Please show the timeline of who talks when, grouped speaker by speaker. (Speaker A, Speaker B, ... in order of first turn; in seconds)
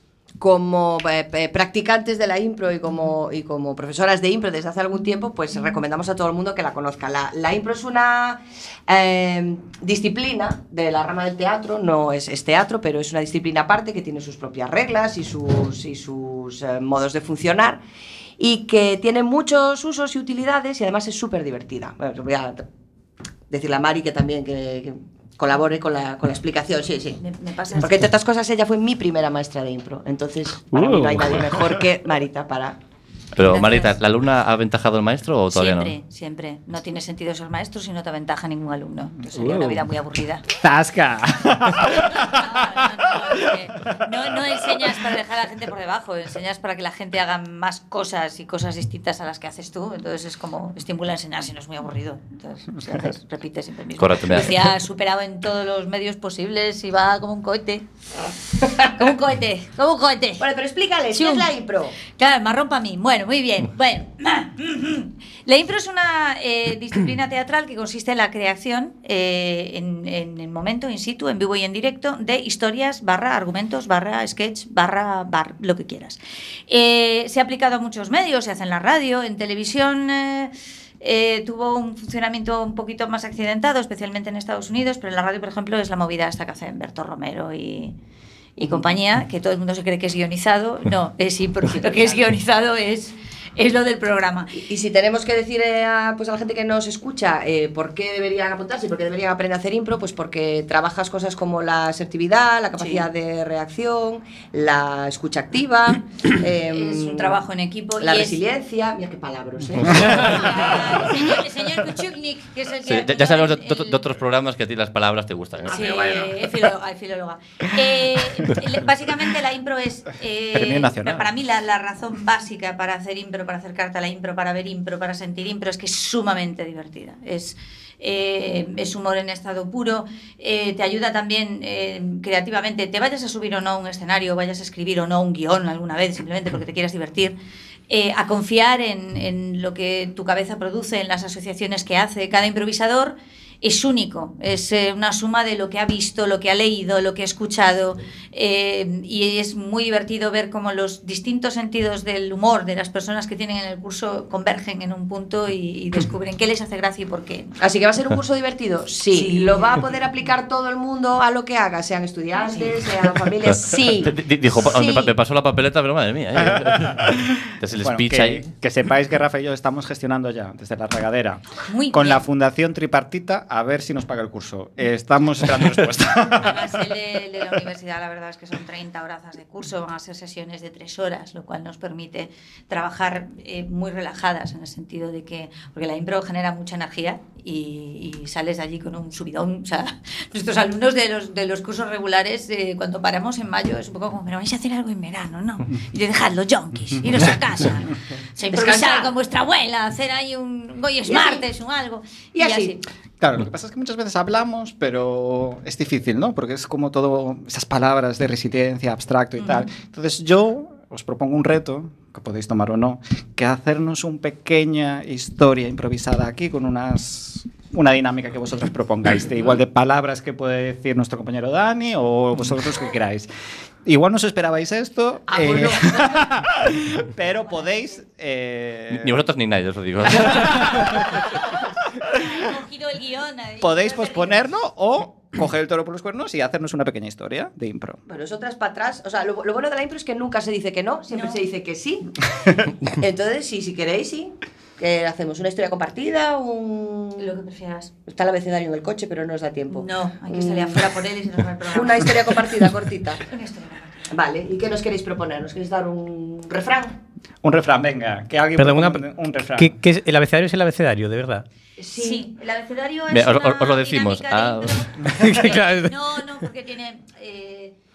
Speaker A: 0.4-17.8, 18.4-22.6, 23.5-27.2, 27.7-32.8, 60.4-62.0, 88.6-88.8, 94.5-107.4, 108.0-111.2, 115.7-116.3, 157.6-165.1, 198.5-199.1, 201.1-201.5, 202.3-202.8, 225.3-226.3, 238.1-242.3, 242.9-247.4, 248.1-250.9, 251.7-253.2, 254.1-257.0, 261.8-262.2
Speaker B: 27.2-28.0, 33.4-34.0, 35.5-40.4, 41.9-57.9, 58.8-60.5, 61.1-61.5, 62.1-88.0, 88.6-94.6, 102.8-103.1, 106.7-108.4, 109.9-114.0, 115.7-137.3, 137.9-157.6, 159.1-159.8, 162.4-162.7, 171.7-172.2, 176.4-202.8, 209.4-209.7, 231.2-231.6, 232.1-234.5, 241.1-241.4, 247.2-247.9, 249.7-252.2, 253.3-254.2, 261.9-267.8
Speaker C: 30.8-31.3, 258.6-259.1, 259.6-261.4, 265.1-265.9
Speaker D: 33.4-35.9, 54.0-54.7, 112.9-116.3, 163.4-168.5, 228.9-230.9, 263.1-264.9
Speaker E: 39.3-39.8, 40.5-42.9, 120.5-121.3, 166.4-176.7, 203.2-223.3, 223.8-229.2, 230.2-231.0, 233.6-238.0, 257.4-259.8